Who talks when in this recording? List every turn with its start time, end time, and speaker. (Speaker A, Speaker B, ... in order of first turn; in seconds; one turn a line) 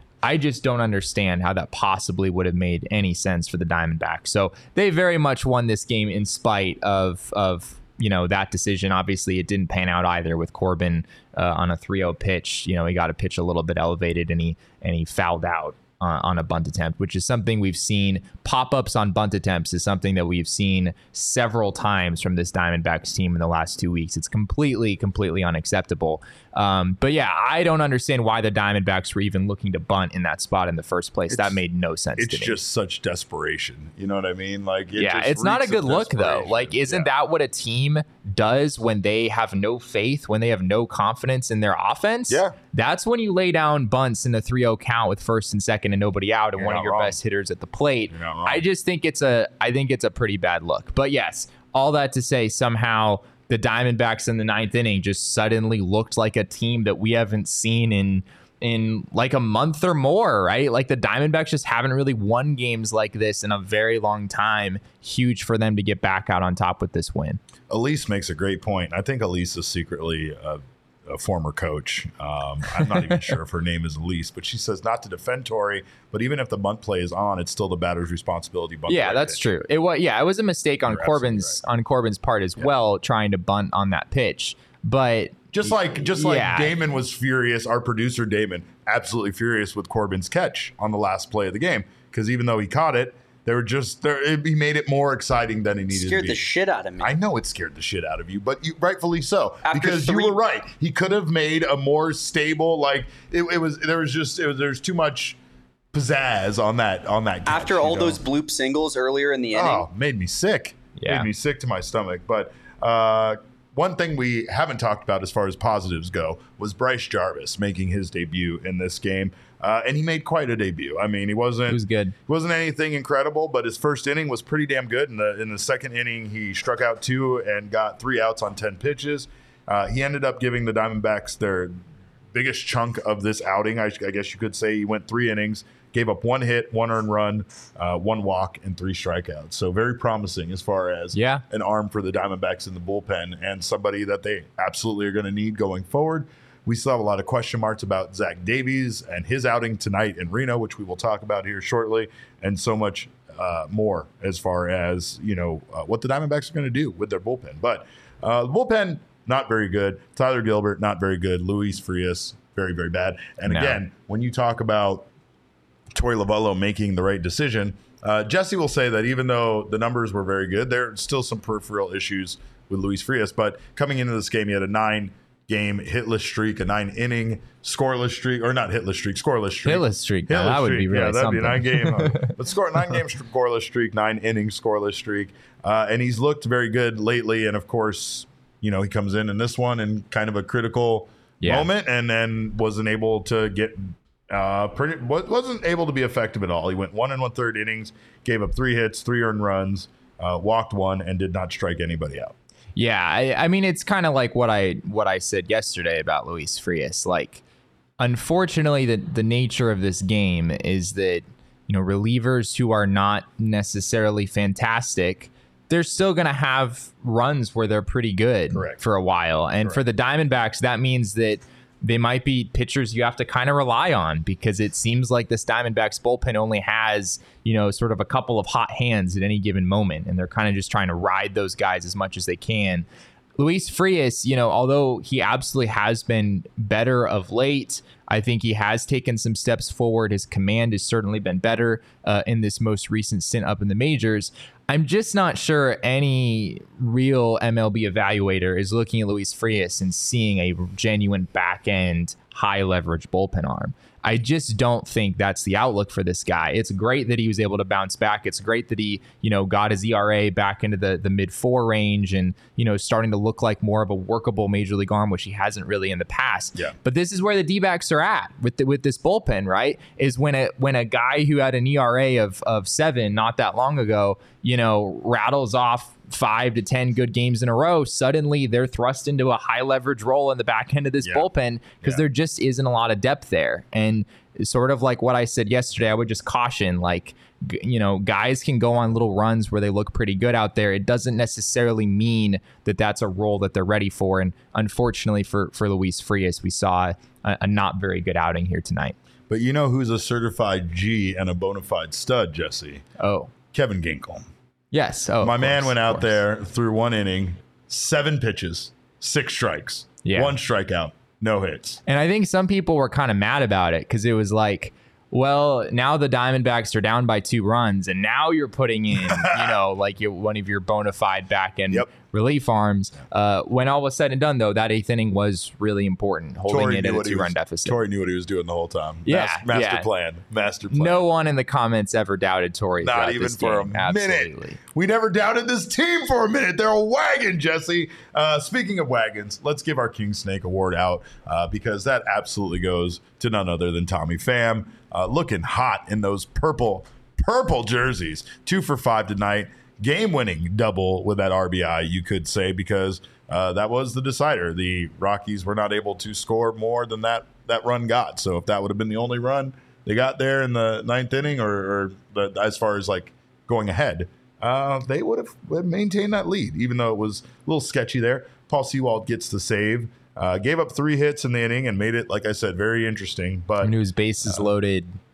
Speaker A: 0.2-32.6
Speaker B: 31.3-31.6
Speaker B: 32.1-37.1
Speaker A: 35.0-67.4
Speaker B: 42.3-42.5
Speaker B: 46.5-47.2
Speaker B: 48.1-48.6
Speaker B: 67.7-79.4
Speaker A: 78.9-86.8
Speaker B: 80.8-81.6
Speaker B: 85.5-105.4
Speaker C: 95.9-97.1
Speaker C: 99.6-100.3
Speaker B: 105.9-108.2
Speaker C: 107.5-109.8
Speaker B: 109.5-131.8
Speaker A: 111.0-111.3
Speaker A: 121.7-122.1
Speaker B: 132.3-165.1
Speaker A: 141.1-141.4
Speaker A: 163.4-163.8
Speaker B: 165.9-202.3
Speaker A: 179.6-182.3
Speaker A: 191.4-191.7
Speaker A: 202.8-207.4
Speaker A: 208.0-232.8
Speaker B: 218.5-218.8
Speaker A: 233.4-298.9
Speaker B: 281.0-281.3
Speaker B: 299.3-302.8
Speaker A: 303.0-303.3
Speaker B: 303.5-304.3
Speaker A: 304.7-306.2
Speaker B: 305.2-311.8
Speaker A: 310.0-310.4
Speaker A: 311.9-327.8
Speaker B: 318.9-319.6
Speaker B: 326.5-331.1
Speaker A: 329.0-329.9
Speaker A: 330.7-334.6
Speaker B: 332.8-374.5
Speaker A: 373.6-374.9